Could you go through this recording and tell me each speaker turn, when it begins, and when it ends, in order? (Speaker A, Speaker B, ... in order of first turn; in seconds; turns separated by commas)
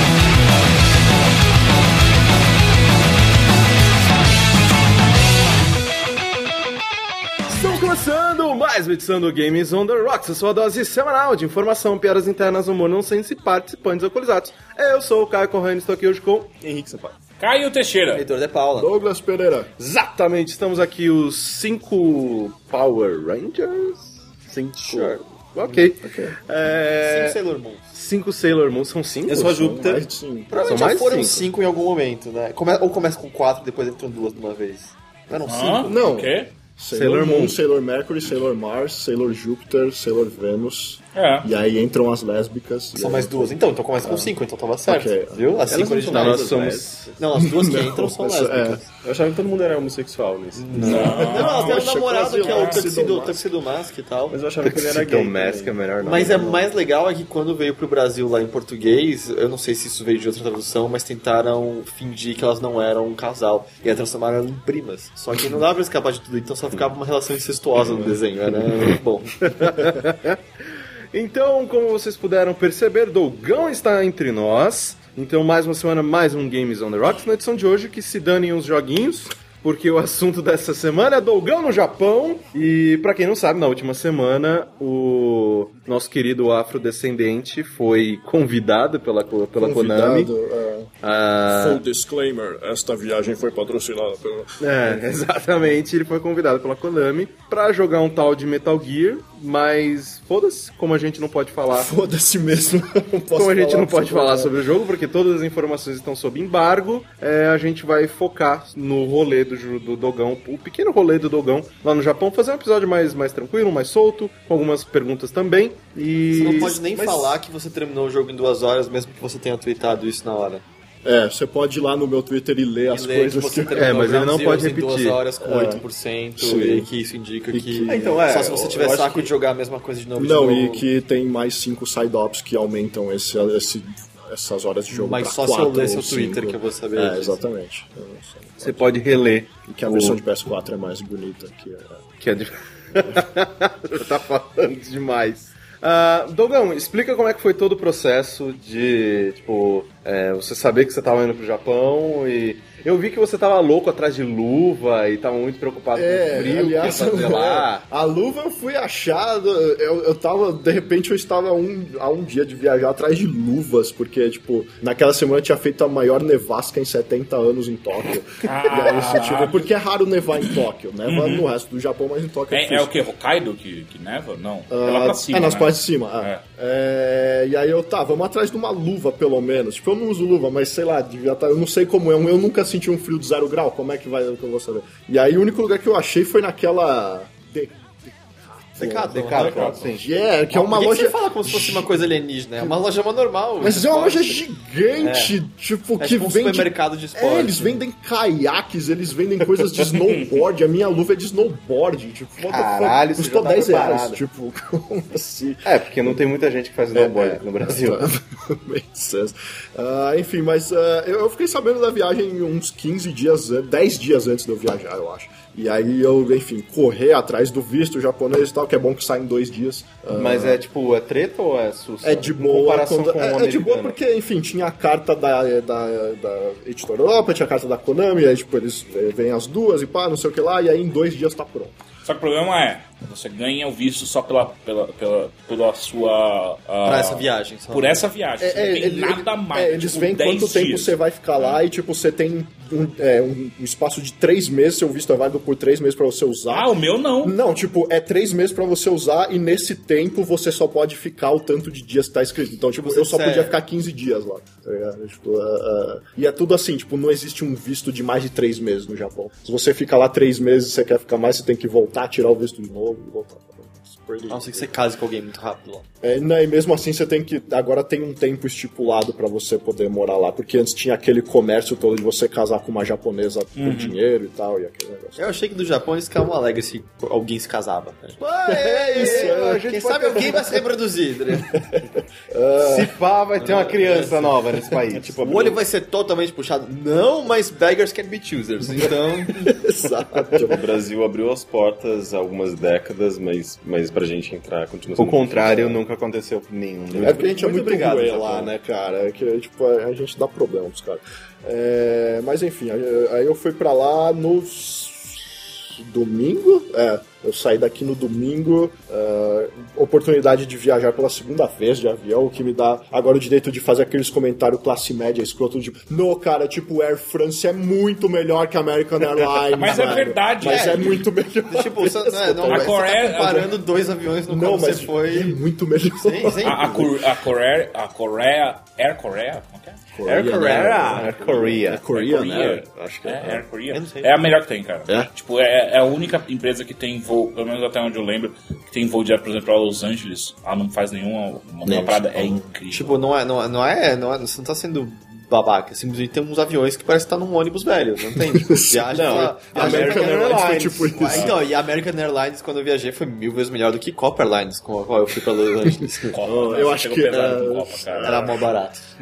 Speaker A: 7.5-17.1, Speaker B: 17.4-18.2, Speaker C: 18.1-18.9, Speaker D: 18.8-19.7, Speaker A: 19.8-27.4, Speaker C: 24.8-25.8, Speaker D: 26.0-26.4, Speaker C: 26.9-27.9, Speaker A: 27.9-31.5, Speaker D: 29.3-30.6, Speaker C: 30.5-36.1, Speaker B: 35.5-36.5, Speaker D: 35.9-44.3, Speaker A: 36.9-37.6, Speaker B: 41.1-41.5, Speaker C: 43.0-48.9, Speaker D: 44.9-45.4, Speaker A: 45.7-47.2, Speaker D: 47.4-48.8, Speaker A: 49.1-50.7, Speaker E: 50.0-50.4, Speaker C: 50.5-54.8, Speaker B: 50.8-51.9, Speaker D: 50.8-53.4, Speaker B: 52.4-52.8, Speaker A: 54.3-56.6, Speaker E: 54.7-55.7, Speaker C: 55.4-70.0, Speaker A: 69.6-70.4, Speaker A: 71.1-90.3, Speaker D: 89.6-90.9, Speaker D: 91.5-95.0, Speaker A: 94.6-101.9, Speaker D: 101.7-104.5, Speaker A: 103.4-117.4, Speaker C: 116.3-120.6, Speaker D: 121.0-123.9, Speaker C: 122.9-130.9, Speaker A: 123.8-125.2, Speaker D: 125.4-125.8, Speaker D: 126.4-126.9, Speaker D: 127.5-128.2, Speaker A: 127.8-129.3, Speaker D: 130.2-139.0, Speaker C: 134.9-137.4, Speaker A: 138.6-140.2, Speaker D: 139.6-142.0, Speaker A: 142.2-157.8, Speaker D: 155.9-172.9, Speaker B: 168.4-169.7, Speaker B: 171.1-171.5, Speaker B: 172.5-176.4, Speaker D: 174.7-191.9, Speaker C: 188.8-189.8, Speaker A: 189.0-190.1, Speaker C: 190.5-194.4, Speaker D: 193.6-206.2, Speaker C: 195.0-195.3, Speaker C: 196.0-197.8, Speaker A: 202.5-204.2, Speaker E: 203.3-203.8, Speaker A: 205.7-208.0, Speaker D: 206.9-220.6, Speaker A: 220.1-224.0, Speaker D: 222.0-231.8, Speaker B: 232.1-241.6, Speaker C: 236.8-238.0, Speaker D: 238.4-264.7, Speaker B: 246.5-247.3, Speaker C: 252.8-253.5, Speaker C: 264.3-265.9, Speaker D: 266.0-275.3, Speaker B: 273.6-274.0, Speaker C: 275.2-281.8, Speaker A: 278.2-280.6, Speaker D: 278.9-279.6, Speaker D: 282.3-282.9, Speaker A: 282.6-285.6, Speaker C: 283.4-284.4, Speaker C: 284.9-289.6, Speaker D: 289.5-290.6, Speaker A: 290.5-291.4, Speaker E: 291.0-295.6, Speaker A: 294.9-297.9, Speaker D: 296.9-322.8, Speaker E: 298.0-298.4, Speaker B: 319.6-321.0, Speaker C: 319.7-320.8, Speaker C: 321.5-325.4, Speaker B: 322.5-323.6, Speaker D: 324.3-326.8, Speaker C: 326.0-326.9, Speaker B: 326.3-329.8, Speaker D: 329.9-333.4, Speaker A: 330.1-331.8, Speaker B: 331.9-343.0, Speaker C: 333.7-334.1, Speaker D: 341.6-342.5, Speaker C: 342.7-356.2, Speaker D: 348.1-351.4, Speaker A: 348.9-351.0, Speaker B: 351.1-351.4, Speaker B: 356.1-358.4, Speaker D: 356.2-358.2, Speaker C: 358.0-358.9